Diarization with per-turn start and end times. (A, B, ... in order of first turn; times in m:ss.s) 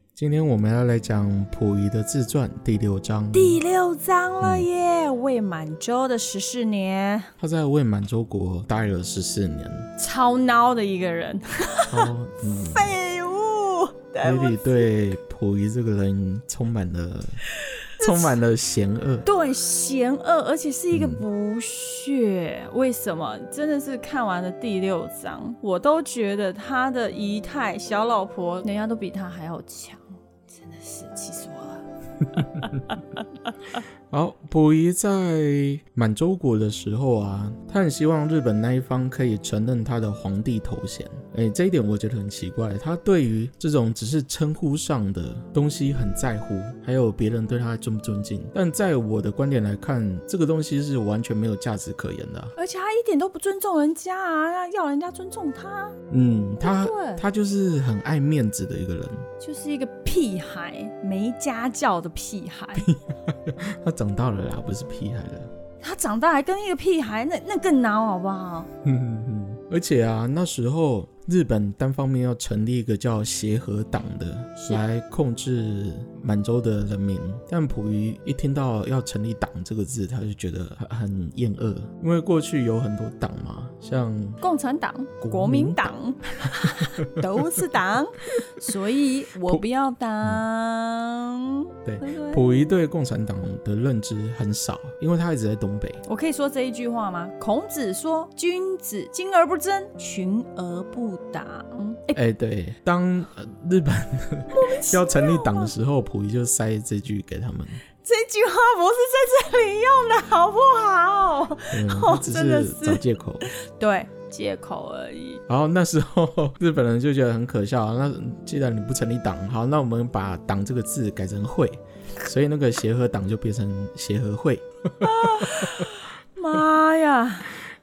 0:00.2-0:03.6 A
0:03.3-0:07.3 B
0:04.4-0:04.7 A
0:07.4-0:09.9 A
0:10.0-0:14.9 B
0:11.9-0:13.0 A
0:14.2-0:17.4 A
0:17.8-0:18.4 B
0:18.0-0:19.3 A
0:19.2-0:31.8 B
0:20.9-0:21.2 A
0:32.4-0:33.8 B
0:34.1-0:52.5 A
0:52.6-0:56.0 B
0:56.1-0:59.3 A
0:56.6-0:57.2 B
0:59.4-1:02.9 B
1:02.8-1:05.5 A
1:05.8-1:08.7 B
1:08.8-1:24.4 A
1:14.6-1:14.8 B
1:24.4-1:32.7 B
1:25.2-1:27.2 A
1:31.8-1:36.0 A
1:36.0-1:42.2 B
1:42.1-1:47.8 A
1:44.5-1:45.7 B
1:48.0-1:55.4 B
1:51.7-1:53.5 A
1:55.5-2:05.9 A
2:05.0-2:07.5 B